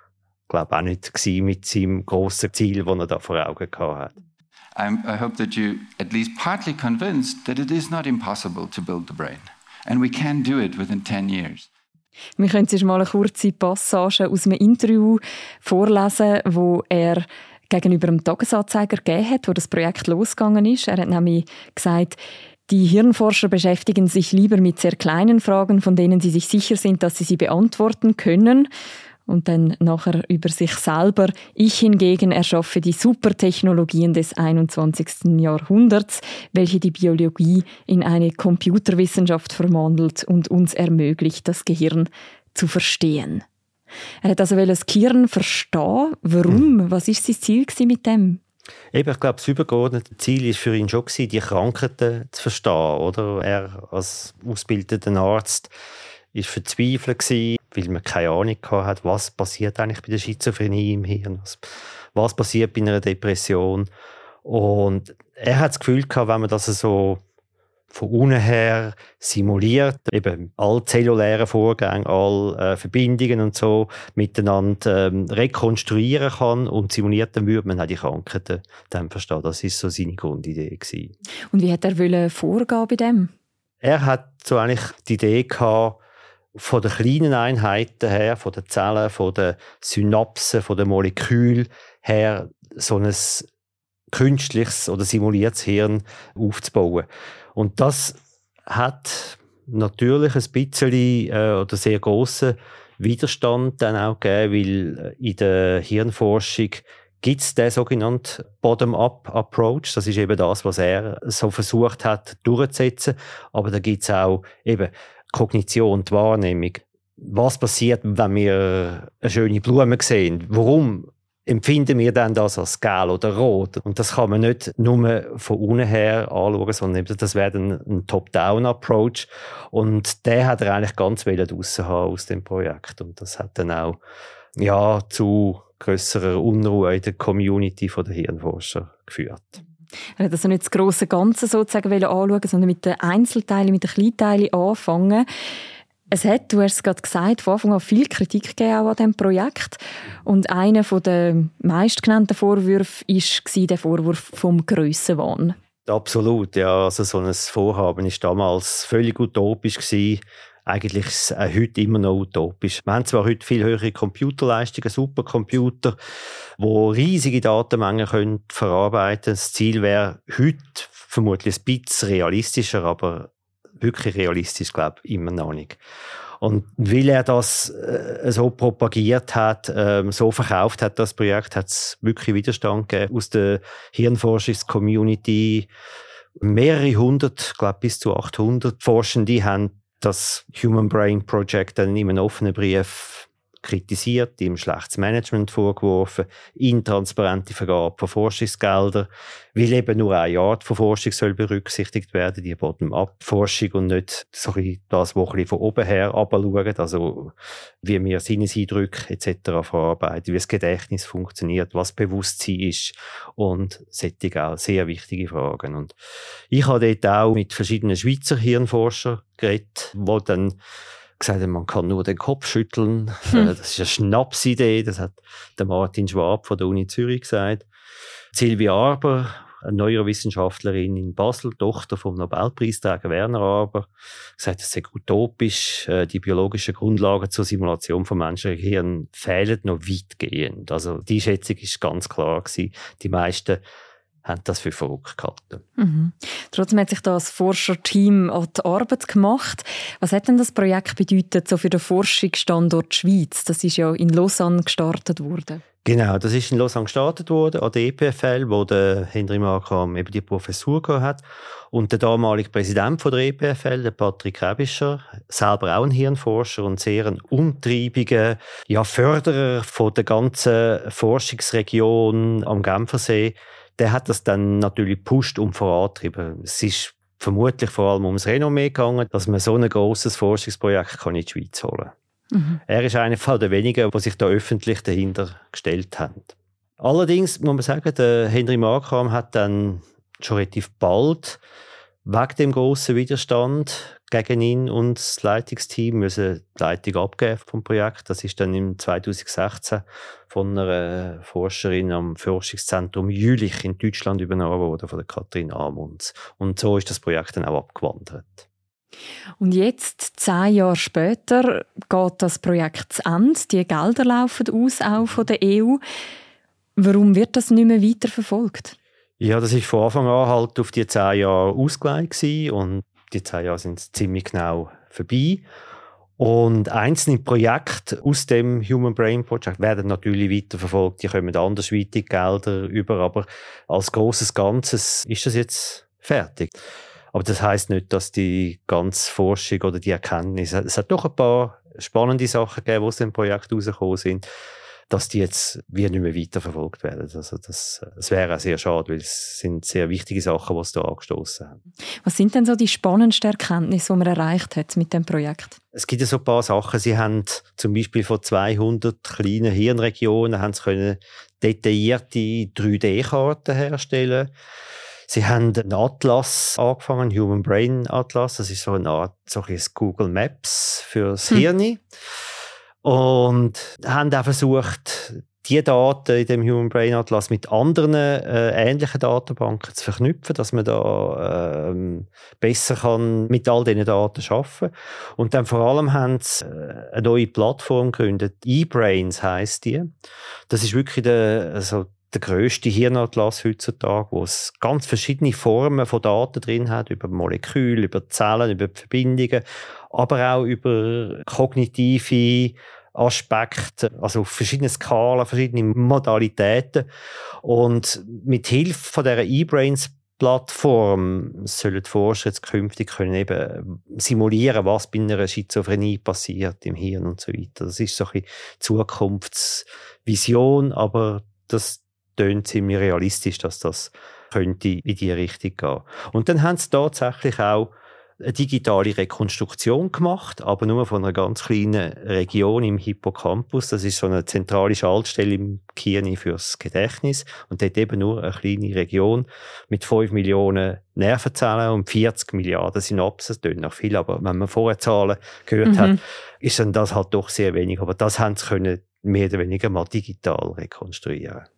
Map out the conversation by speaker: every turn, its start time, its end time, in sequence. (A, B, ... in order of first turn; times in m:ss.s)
0:00.5-0:04.2 A
0:04.8-0:11.7 B
0:12.4-0:28.7 C
0:29.3-0:43.4 C
0:44.2-0:48.4 C
0:48.9-0:55.7 A
0:56.3-1:03.9 A
1:04.4-1:07.2 A
1:07.9-1:21.1 A
1:21.5-1:23.3 C
1:23.8-1:26.0 A
1:26.6-1:33.5 A
1:34.1-2:14.0 A
2:14.6-2:19.6 A
2:20.2-2:25.2 C
2:26.1-2:35.6 C
2:35.9-2:46.0 A
2:46.6-2:55.8 A
2:56.4-3:05.7 A
3:06.4-3:36.0 A
3:36.5-3:40.6 A
3:41.2-3:47.6 A
3:48.3-4:03.6 A
4:04.2-4:05.6 A
4:05.8-4:15.6 C
4:15.8-4:41.9 A
4:42.3-4:42.6 C
4:42.6-4:51.4 A
4:52.0-5:08.5 A
5:09.4-5:15.8 C
5:16.8-5:18.8 C
5:19.2-5:25.4 A
5:26.2-5:36.5 A
5:37.1-5:44.2 A
5:44.9-5:51.6 A
5:52.0-5:55.6 C
5:55.7-6:04.3 A
6:05.1-6:11.8 A
6:12.8-6:29.9 A
6:30.5-6:46.9 A
6:47.4-7:31.5 A
7:25.6-7:26.0 C